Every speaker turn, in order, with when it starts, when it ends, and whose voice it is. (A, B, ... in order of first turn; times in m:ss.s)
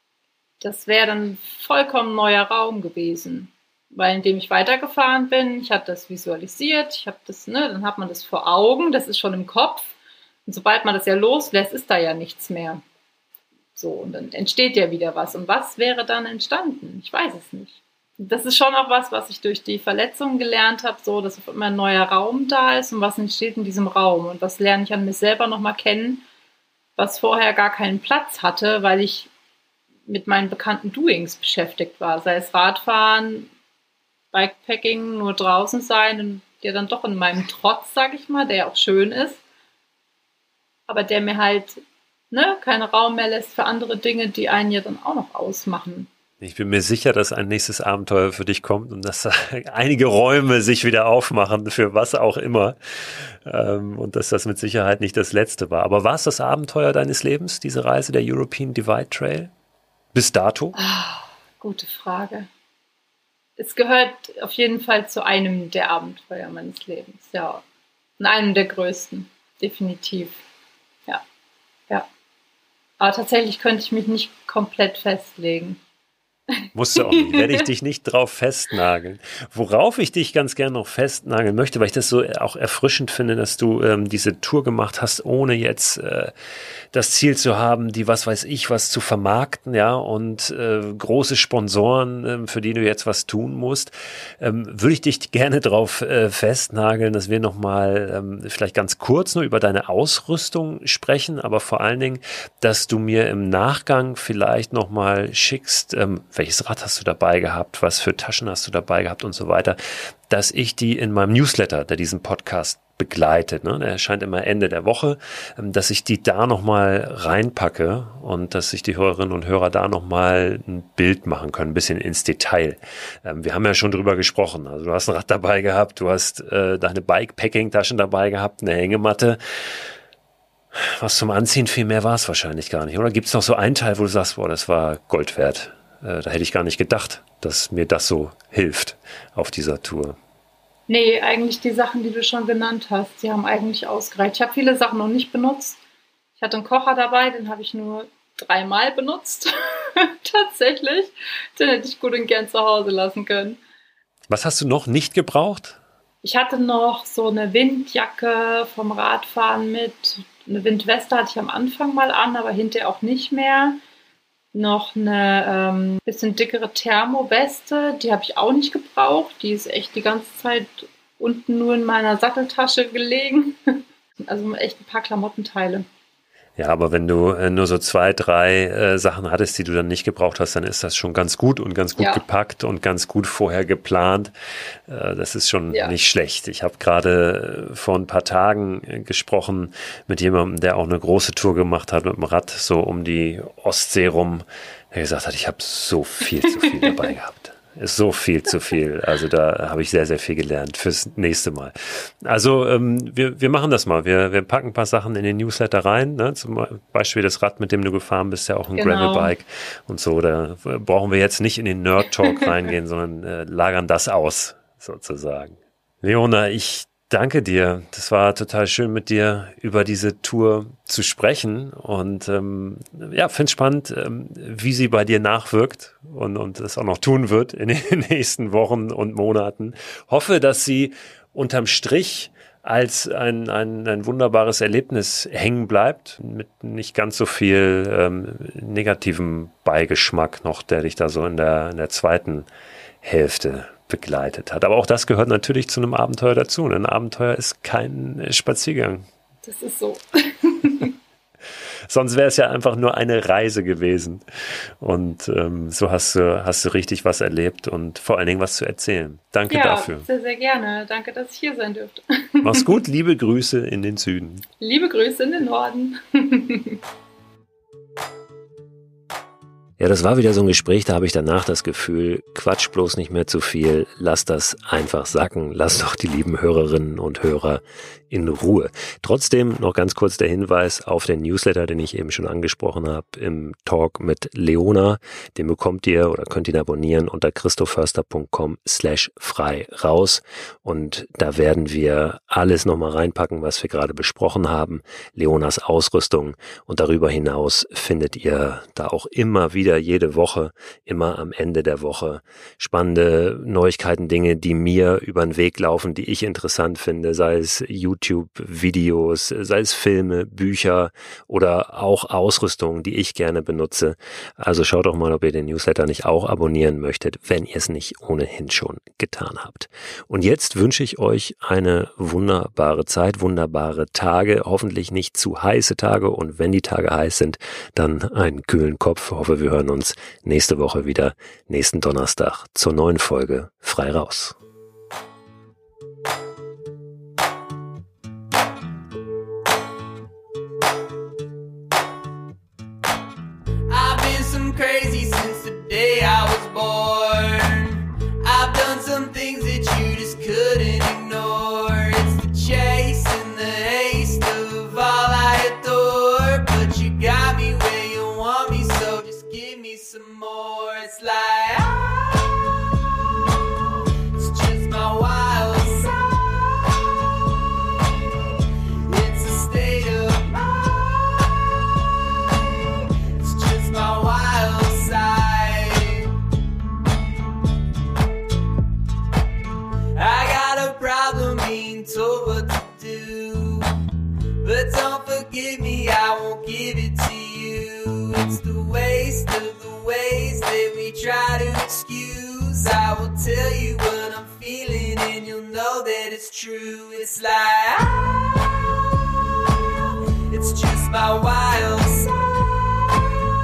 0:00.6-0:09.9 A
0:10.4-0:12.8 A
0:13.7-0:26.2 A
0:27.0-0:29.3 A
0:30.1-0:33.5 A
0:34.3-0:39.4 A
0:40.9-0:41.8 A
0:42.3-0:46.1 A
0:46.4-0:59.5 B
1:00.1-1:00.8 B
1:00.7-1:02.5 A
1:03.6-1:07.6 A
1:08.2-1:10.4 A
1:13.0-1:15.8 A
1:16.6-1:17.6 A
1:16.7-1:26.3 B
1:26.9-2:09.8 B
2:10.7-2:20.2 B
2:20.9-2:25.8 A
2:26.4-2:33.6 A
2:34.3-2:35.8 B
2:36.2-2:43.8 A
2:44.5-2:53.6 A
2:54.2-2:55.9 A
2:56.6-3:04.3 B
3:02.0-3:02.2 A
3:04.9-4:02.5 B
3:16.6-3:16.9 A
3:28.8-3:29.3 A
4:03.0-4:09.1 B
4:09.4-4:10.9 A
4:11.9-4:20.1 B
4:19.5-4:22.7 A
4:22.4-4:24.4 B
4:24.6-4:26.8 A
4:29.8-5:34.4 B
5:43.7-6:02.3 C
6:04.1-6:06.2 C
6:08.9-6:11.4 C
6:12.9-6:16.1 C
6:19.9-6:23.7 C
6:24.4-6:38.6 C
6:40.3-6:42.1 C
6:42.9-6:43.1 C